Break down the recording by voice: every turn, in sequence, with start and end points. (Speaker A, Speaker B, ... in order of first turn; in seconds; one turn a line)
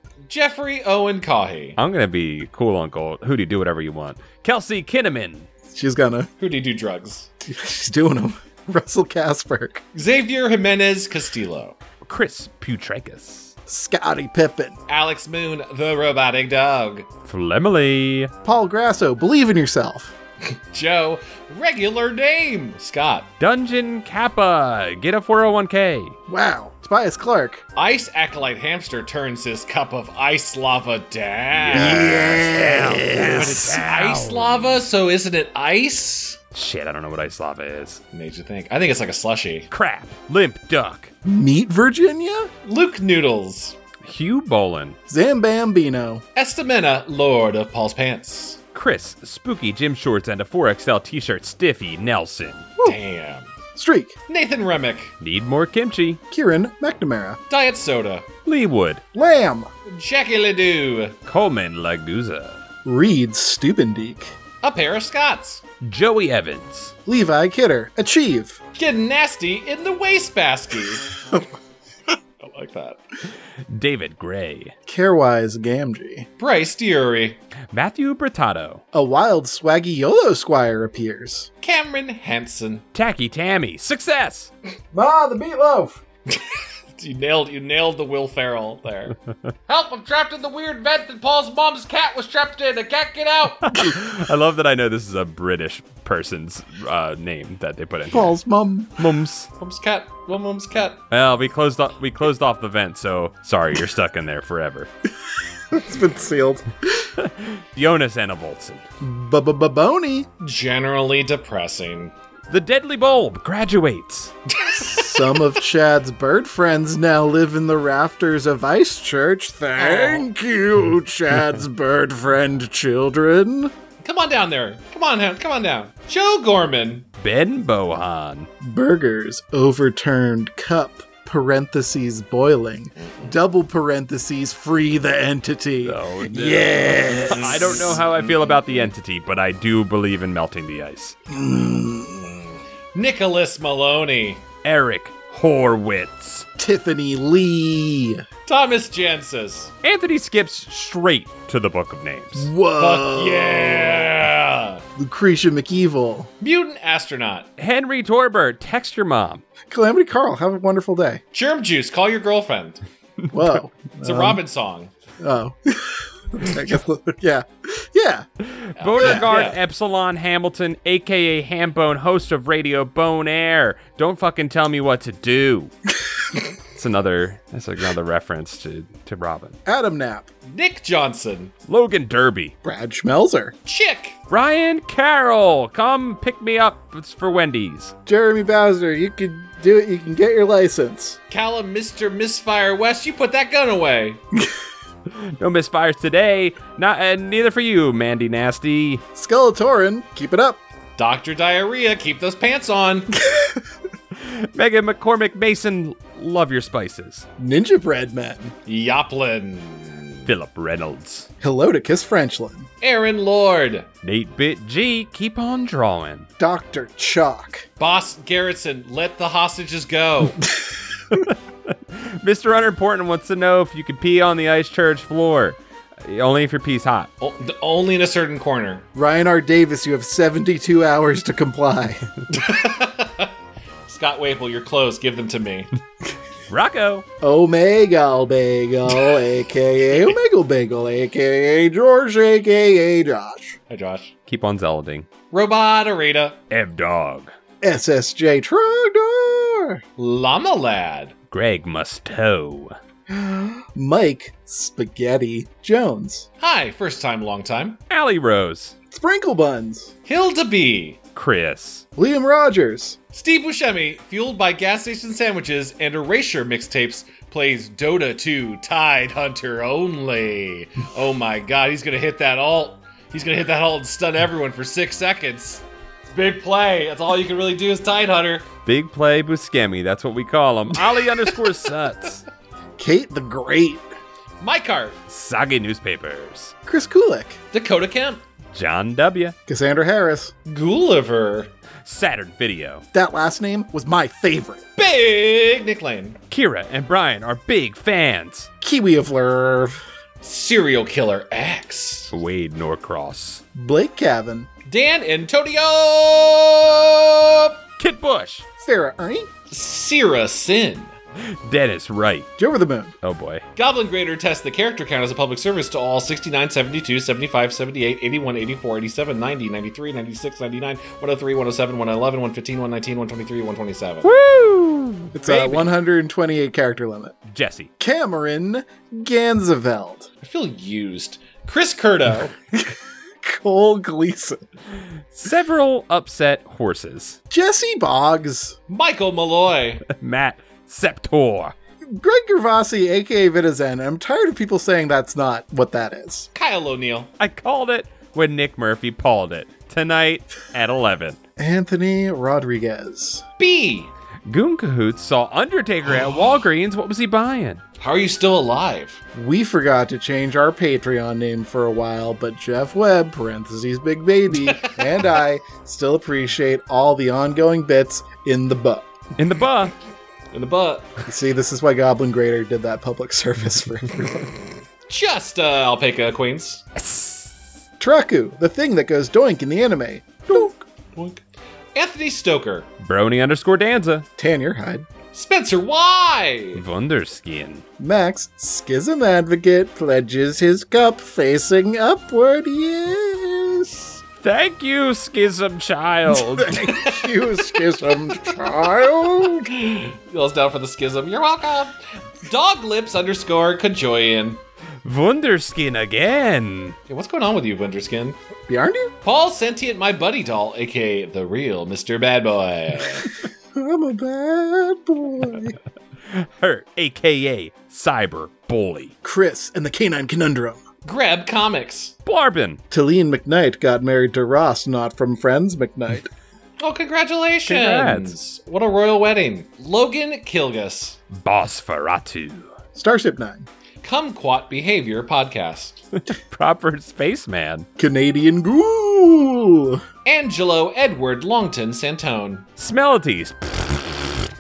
Speaker A: 0.3-1.8
Speaker B: 1.8-5.5
Speaker C: 5.7-6.3
Speaker A: 6.4-7.3
Speaker C: 7.4-9.8
Speaker A: 9.9-11.8
Speaker B: 12.0-13.5
Speaker C: 13.7-14.8
Speaker A: 14.9-17.1
Speaker B: 17.3-18.3
Speaker C: 18.4-20.1
Speaker A: 20.4-23.3
Speaker B: 23.4-26.2
Speaker C: 26.3-27.6
Speaker A: 27.8-36.4
Speaker B: 31.6-34.8
Speaker C: 31.7-33.7
Speaker B: 36.5-38.0
Speaker A: 38.1-39.7
Speaker B: 39.7-41.1
Speaker C: 41.2-42.5
Speaker A: 42.6-43.8
Speaker B: 44.0-45.0
Speaker C: 45.1-46.2
Speaker A: 46.4-48.6
Speaker B: 48.7-52.7
Speaker A: 52.8-53.5
Speaker C: 53.8-54.2
Speaker A: 54.3-55.1
Speaker B: 55.2-56.2
Speaker C: 56.3-57.4
Speaker A: 57.5-58.3
Speaker B: 58.5-59.0
Speaker C: 59.1-59.7
Speaker A: 59.9-61.2
Speaker B: 61.3-62.6
Speaker C: 62.9-64.3
Speaker A: 64.6-65.6
Speaker B: 65.8-67.0
Speaker C: 67.1-68.6
Speaker A: 68.8-71.1
Speaker A: 72.4-73.0
Speaker B: 73.7-74.7
Speaker C: 74.9-76.3
Speaker A: 76.4-77.4
Speaker B: 77.7-78.8
Speaker C: 78.9-81.5
Speaker A: 81.6-82.8
Speaker B: 82.9-84.5
Speaker C: 84.9-86.0
Speaker A: 86.3-89.2
Speaker A: 89.7-93.8
Speaker B: 93.6-98.3
Speaker C: 98.1-99.2
Speaker B: 99.0-99.5
Speaker A: 99.6-101.0
Speaker B: 101.1-104.9
Speaker C: 105.7-107.1
Speaker B: 107.2-108.8
Speaker C: 109.0-110.3
Speaker A: 110.4-112.1
Speaker B: 112.5-114.3
Speaker A: 114.6-115.1
Speaker C: 114.8-123.7
Speaker A: 119.8-120.3
Speaker A: 124.0-127.1
Speaker B: 127.2-128.5
Speaker C: 128.6-138.0
Speaker A: 133.0-133.3
Speaker B: 135.8-141.2
Speaker A: 137.6-138.9
Speaker C: 141.3-142.4
Speaker A: 142.9-144.4
Speaker B: 144.6-146.5
Speaker C: 146.6-148.2
Speaker A: 148.5-149.7
Speaker B: 149.8-152.5
Speaker C: 152.4-154.2
Speaker A: 152.8-154.8
Speaker C: 155.0-156.3
Speaker A: 156.4-157.5
Speaker B: 157.6-159.4
Speaker C: 159.7-161.2
Speaker A: 161.3-162.8
Speaker C: 163.3-164.4
Speaker A: 164.0-164.9
Speaker C: 165.2-168.3
Speaker B: 168.4-175.7
Speaker A: 168.8-169.6
Speaker C: 169.0-169.3
Speaker B: 176.7-179.6
Speaker C: 179.7-180.3
Speaker A: 180.5-181.5
Speaker B: 181.7-182.6
Speaker C: 182.6-183.6
Speaker A: 183.7-184.2
Speaker B: 184.3-187.9
Speaker C: 188.1-191.2
Speaker A: 191.3-194.2
Speaker B: 195.1-199.0
Speaker C: 199.1-200.6
Speaker A: 201.0-203.2
Speaker B: 204.2-207.3
Speaker C: 207.4-208.5
Speaker A: 208.7-210.3
Speaker B: 210.3-211.3
Speaker C: 211.4-212.7
Speaker A: 212.8-213.9
Speaker B: 214.0-216.3
Speaker C: 216.4-217.7
Speaker A: 217.8-220.4
Speaker B: 221.1-227.1
Speaker A: 227.2-228.9
Speaker C: 228.9-232.1
Speaker A: 232.3-233.3
Speaker A: 233.9-235.7
Speaker B: 236.5-237.1
Speaker C: 237.2-243.6
Speaker A: 243.7-244.1
Speaker B: 244.3-245.1
Speaker A: 245.3-246.4
Speaker B: 246.5-247.3
Speaker C: 247.6-249.8
Speaker A: 250.0-251.1
Speaker B: 251.3-252.7
Speaker C: 253.1-256.3
Speaker A: 256.4-257.8
Speaker B: 257.9-258.7
Speaker C: 258.9-259.9
Speaker A: 260.1-261.0
Speaker B: 261.1-261.9
Speaker C: 262.0-263.0
Speaker A: 263.1-278.5
Speaker B: 278.6-282.2
Speaker C: 282.8-283.8
Speaker A: 284.4-285.0
Speaker B: 285.1-286.6
Speaker C: 286.7-287.4
Speaker A: 287.5-288.2
Speaker B: 288.5-289.4
Speaker C: 289.5-290.3
Speaker A: 290.5-291.5
Speaker B: 291.8-292.8
Speaker C: 292.9-294.7
Speaker A: 294.8-296.2
Speaker B: 296.3-298.5
Speaker C: 298.6-299.8
Speaker A: 300.2-302.1
Speaker B: 302.1-303.4
Speaker C: 303.6-304.5
Speaker A: 304.7-307.6
Speaker B: 307.8-308.5
Speaker C: 308.6-309.3
Speaker A: 309.5-310.9
Speaker B: 311.2-312.3
Speaker C: 312.4-312.9
Speaker B: 313.0-313.4
Speaker A: 313.6-324.1
Speaker B: 324.0-325.7
Speaker C: 325.1-327.1
Speaker B: 327.3-327.7
Speaker C: 327.8-330.1
Speaker A: 330.2-332.3
Speaker C: 332.5-334.4
Speaker B: 335.1-337.2
Speaker C: 337.3-338.6
Speaker A: 338.7-339.9
Speaker B: 339.9-341.6
Speaker C: 341.9-346.3
Speaker A: 346.4-347.1
Speaker B: 347.2-351.2
Speaker C: 351.4-353.2
Speaker A: 353.4-353.9
Speaker B: 354.3-357.6
Speaker A: 357.8-359.0
Speaker C: 359.1-368.9
Speaker A: 364.4-364.8
Speaker B: 369.2-369.7
Speaker A: 370.3-370.9
Speaker C: 371.1-374.3
Speaker A: 374.9-376.7
Speaker B: 376.8-377.3
Speaker C: 377.8-380.6
Speaker A: 380.9-381.2
Speaker A: 381.8-382.7
Speaker B: 382.8-384.1
Speaker C: 384.2-384.9
Speaker A: 385.1-386.6
Speaker B: 386.6-387.6
Speaker C: 387.8-393.9
Speaker B: 394.2-396.7
Speaker C: 396.1-399.5
Speaker A: 396.7-396.9
Speaker A: 399.4-404.4
Speaker B: 404.8-406.8
Speaker A: 406.9-408.2
Speaker C: 408.5-408.9
Speaker A: 409.1-413.1
Speaker C: 413.5-415.6
Speaker B: 416.1-418.9
Speaker C: 419.0-420.6
Speaker A: 420.9-422.0
Speaker B: 422.1-422.6
Speaker C: 422.7-426.1
Speaker A: 426.6-431.0
Speaker B: 427.5-428.1
Speaker B: 431.1-432.5
Speaker C: 432.8-433.5
Speaker A: 433.8-435.9
Speaker B: 436.1-437.7
Speaker C: 437.8-439.8
Speaker A: 440.1-442.5
Speaker B: 442.6-444.2